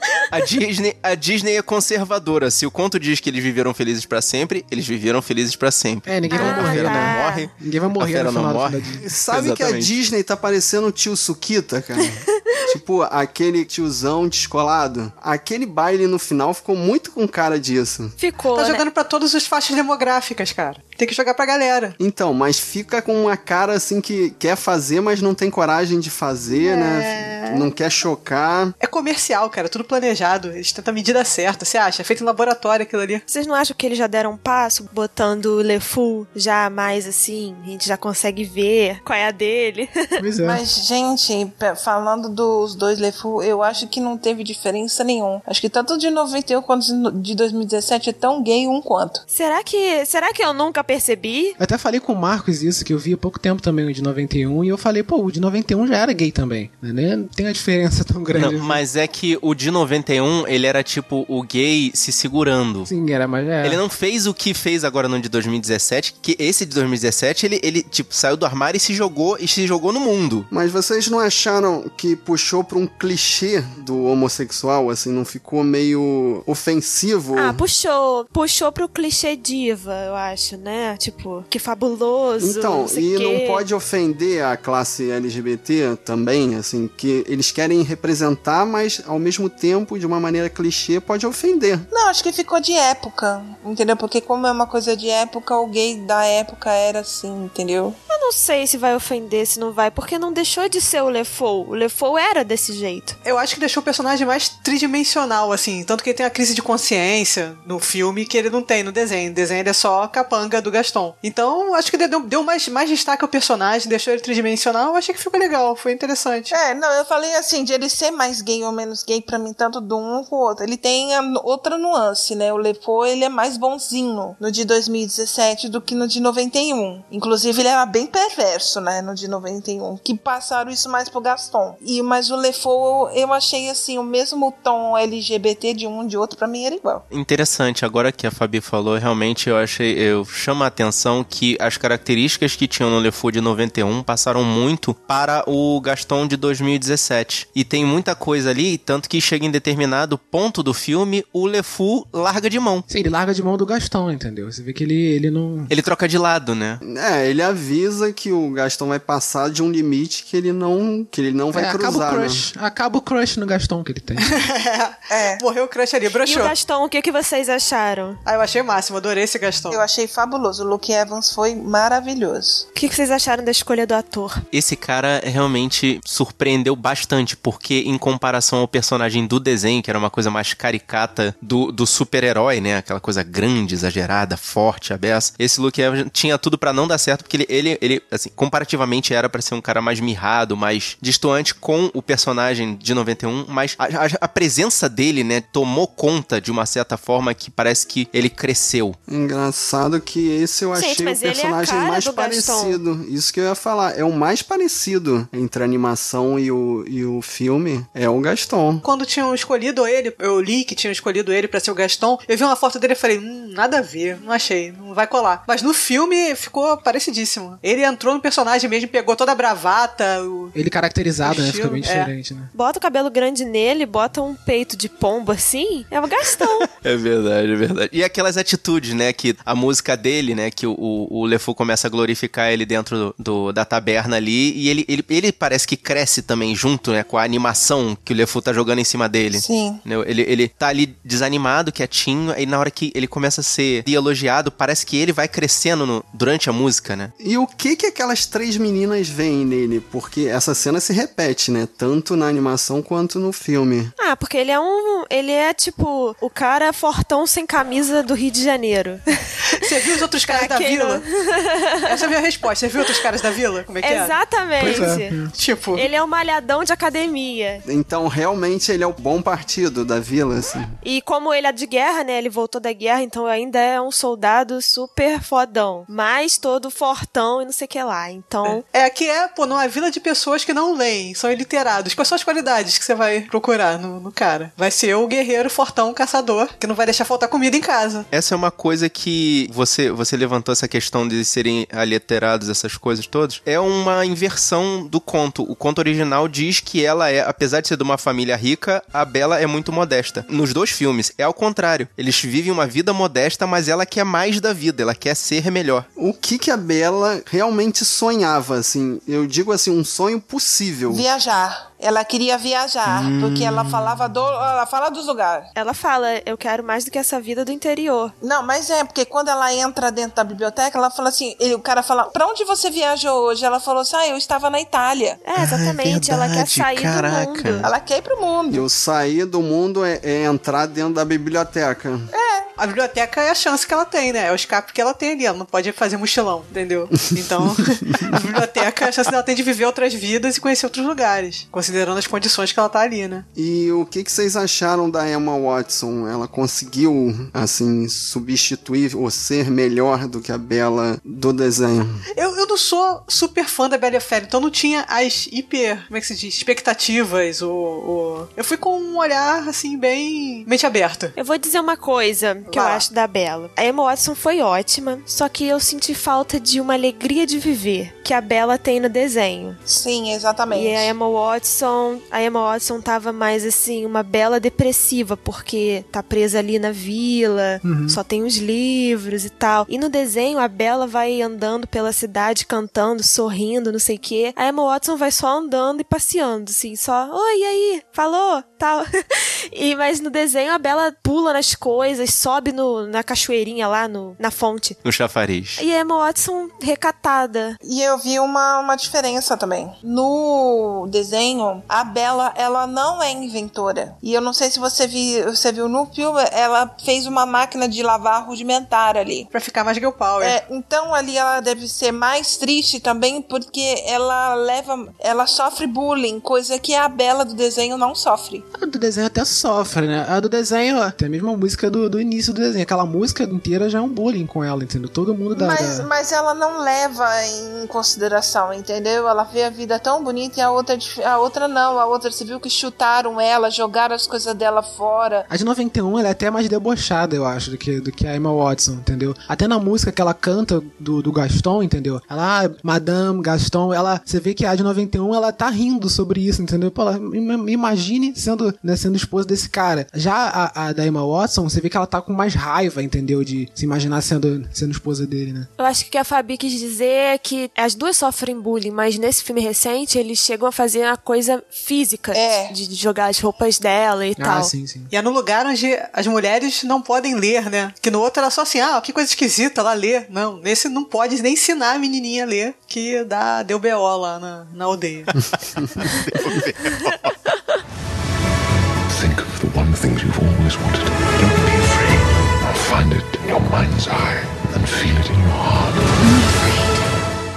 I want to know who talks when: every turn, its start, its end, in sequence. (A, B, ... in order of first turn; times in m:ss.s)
0:00.3-0:09.9 A
0:06.1-0:09.0 B
0:06.3-0:07.5 C
0:09.0-0:18.2 D
0:18.2-0:18.8 C
0:18.5-0:22.0 E
0:22.0-0:28.7 D
0:26.5-0:27.7 E
0:28.8-0:33.2 E
0:33.3-0:40.2 C
0:40.2-0:40.6 B
0:40.4-0:49.2 F
0:49.3-0:51.6 C
0:51.6-0:58.8 B
0:58.3-1:02.9 A
1:02.9-1:03.8 B
1:03.6-1:10.5 A
1:10.5-1:17.6 D
1:17.4-1:23.6 C
1:22.4-1:31.9 D
1:31.9-1:38.0 F
1:38.1-1:43.2 C
1:43.2-1:56.5 E
1:56.5-2:17.0 F
2:17.1-2:32.9 A
2:32.9-2:35.7 B
2:35.7-2:36.8 A
2:36.8-2:42.4 D
2:41.5-2:44.4 B
2:44.3-2:46.5 E
2:45.1-2:45.4 F
2:46.2-2:48.2 C
2:48.2-2:49.8 E
2:49.7-2:52.7 F
2:52.8-2:54.4 C
2:54.5-3:19.0 A
3:19.1-3:28.8 D
3:20.8-3:22.8 C
3:28.8-3:40.5 E
3:40.5-3:42.5 B
3:41.2-3:42.1 E
3:42.5-3:46.7 C
3:46.8-4:07.1 A
3:59.4-3:59.8 F
4:07.2-4:13.9 D
4:14.0-4:19.0 C
4:19.6-4:21.0 E
4:20.3-4:22.1 C
4:21.9-4:24.2 E
4:23.8-4:25.2 C
4:24.6-4:25.3 B
4:25.3-4:25.9 E
4:25.8-4:27.6 C
4:27.6-4:30.7 D
4:30.8-4:38.6 C
4:38.4-4:48.1 E
4:48.1-5:05.9 A
5:06.0-5:11.0 D
5:10.9-5:15.5 F
5:12.9-5:14.0 A
5:15.6-5:18.1 C
5:18.2-5:25.2 F
5:25.2-5:27.7 C
5:25.4-5:27.7 A
5:27.6-5:28.7 F
5:28.5-5:32.1 D
5:32.1-5:32.5 F
5:32.6-5:43.3 E
5:43.4-5:52.0 D
5:52.2-6:01.1 E
6:01.2-6:09.6 C
6:02.5-6:02.8 E
6:09.7-6:10.9 F
6:10.5-6:28.8 C
6:17.6-6:18.0 B
6:29.5-6:34.8 C
6:34.8-6:35.6 A
6:35.6-6:37.6 C
6:37.6-6:49.3 F
6:49.3-6:50.4 E
6:50.2-6:58.4 F
6:58.6-7:05.9 B
7:05.4-7:15.3 F
7:15.3-7:35.5 B
7:35.6-7:44.5 C
7:42.1-7:42.5 F
7:44.2-7:44.9 B
7:44.9-7:55.1 E
7:55.8-7:57.1 A
7:58.9-8:06.0 G